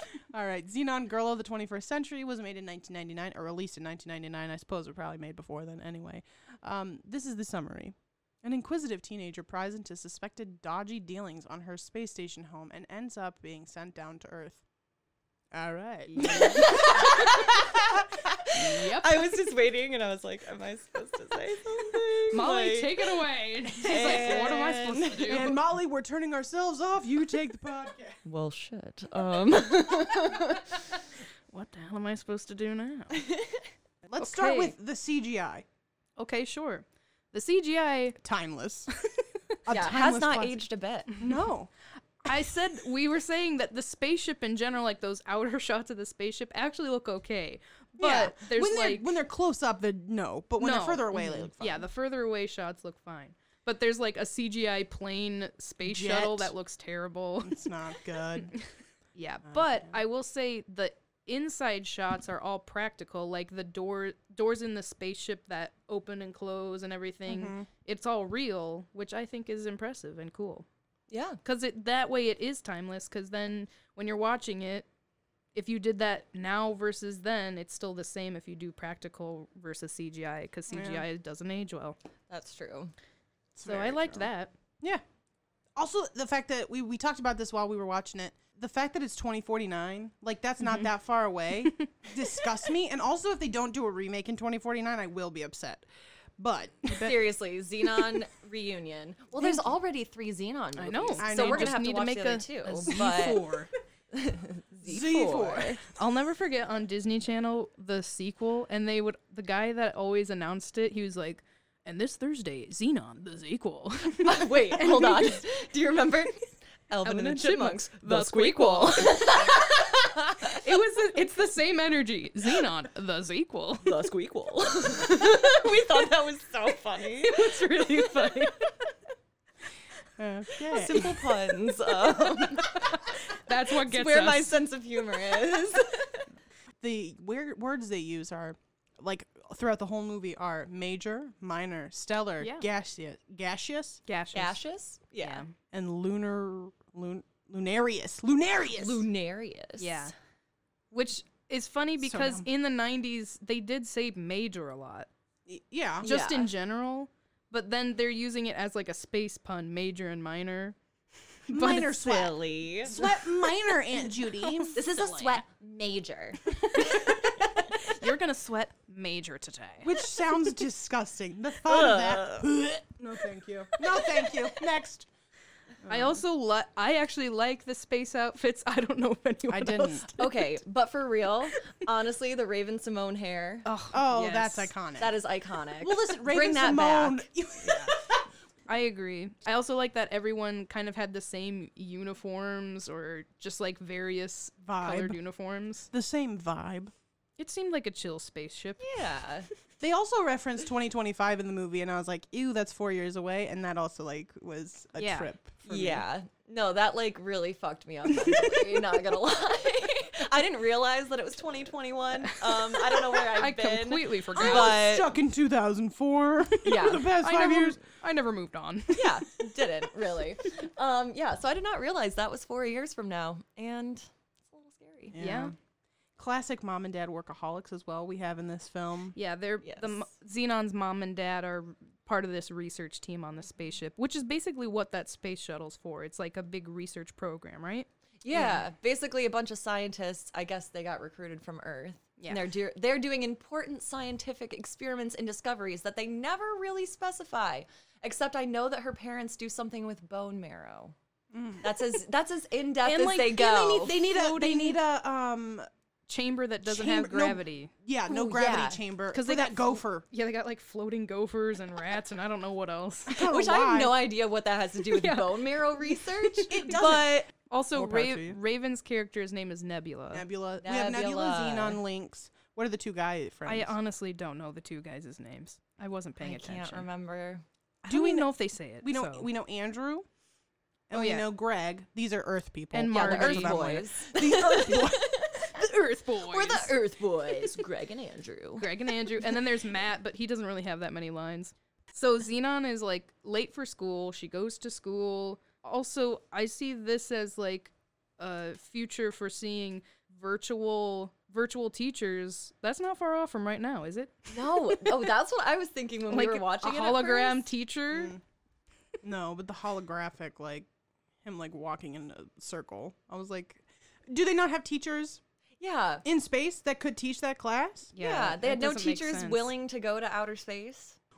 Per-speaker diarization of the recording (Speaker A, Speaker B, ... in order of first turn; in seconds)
Speaker A: 0.3-14.6, 15.5-18.1, 23.9-28.2, 34.0-35.6, 38.2-38.9, 39.6-40.6, 41.2-41.7, 48.0-51.9, 55.8-56.5, 57.4-58.5, 59.4-60.0, 67.3-67.7, 80.7-81.0, 83.5-84.3, 85.8-95.8, 96.4-97.2, 99.4-99.7, 101.2-101.8, 102.9-103.2, 104.8-105.8, 130.2-131.3, 136.8-144.0, 145.7-149.0, 152.0-152.5, 155.5-156.1, 161.5-164.8, 169.8-175.1, 175.8-176.2, 179.5-180.2, 183.9-185.2, 185.8-188.3, 194.6-195.2, 195.9-196.9, 199.8-206.0, 214.3-217.8, 225.1-225.5, 226.2-229.2, 251.3-251.9, 252.8-255.7, 256.6-260.0, 263.1-264.0, 266.5-268.4, 270.1-273.7, 277.9-280.1, 280.9-285.2, 307.9-308.2, 309.0-310.7, 311.2-315.2, 316.0-317.9
Speaker B: 16.1-16.8, 18.5-19.4, 22.3-25.6, 31.5-33.3, 34.2-34.7, 36.2-38.2, 42.2-49.1, 50.6-57.7, 58.4-70.7, 71.4-74.9, 75.5-82.0, 83.6-84.5, 90.6-90.9, 100.8-103.7, 106.0-115.4, 117.0-119.6, 120.5-123.9, 127.2-128.7, 133.3-134.6, 142.4-142.7, 144.1-144.6, 145.2-145.5, 149.8-150.1, 150.9-155.1, 156.0-160.8, 161.5-161.9, 164.4-165.4, 166.9-167.2, 167.8-170.0, 175.8-180.5, 183.6-184.7, 187.6-187.9, 188.7-195.9, 197.4-198.9, 204.9-205.3, 212.3-214.8, 217.2-219.5, 225.2-225.5, 229.1-238.6, 254.2-254.8, 256.1-257.7, 259.1-263.3, 264.8-266.8, 267.5-270.2, 273.4-276.8, 277.8-279.3, 280.9-281.3, 282.7-283.8, 285.4-286.8, 288.6-305.1, 306.1-308.1, 317.9-319.5
Speaker C: 16.2-23.2, 23.8-25.5, 28.2-30.8, 33.1-33.6, 39.7-41.1, 71.1-71.4, 82.3-82.9, 96.9-103.5, 104.1-105.8, 114.2-120.5, 123.8-127.5, 130.7-133.0, 133.7-136.2, 144.3-145.4, 148.7-150.1, 156.0-156.5, 161.8-162.9, 164.7-166.5, 171.7-172.5, 180.2-183.7, 185.0-187.2, 198.8-199.5, 205.7-215.1, 216.6-217.2, 218.9-225.1, 229.6-230.0, 238.2-250.9, 251.6-254.1, 258.1-258.8, 263.2-267.3, 270.6-271.8, 276.2-277.4, 282.9-285.6, 286.3-289.4, 304.3-307.5, 315.6-316.0, 318.0-321.0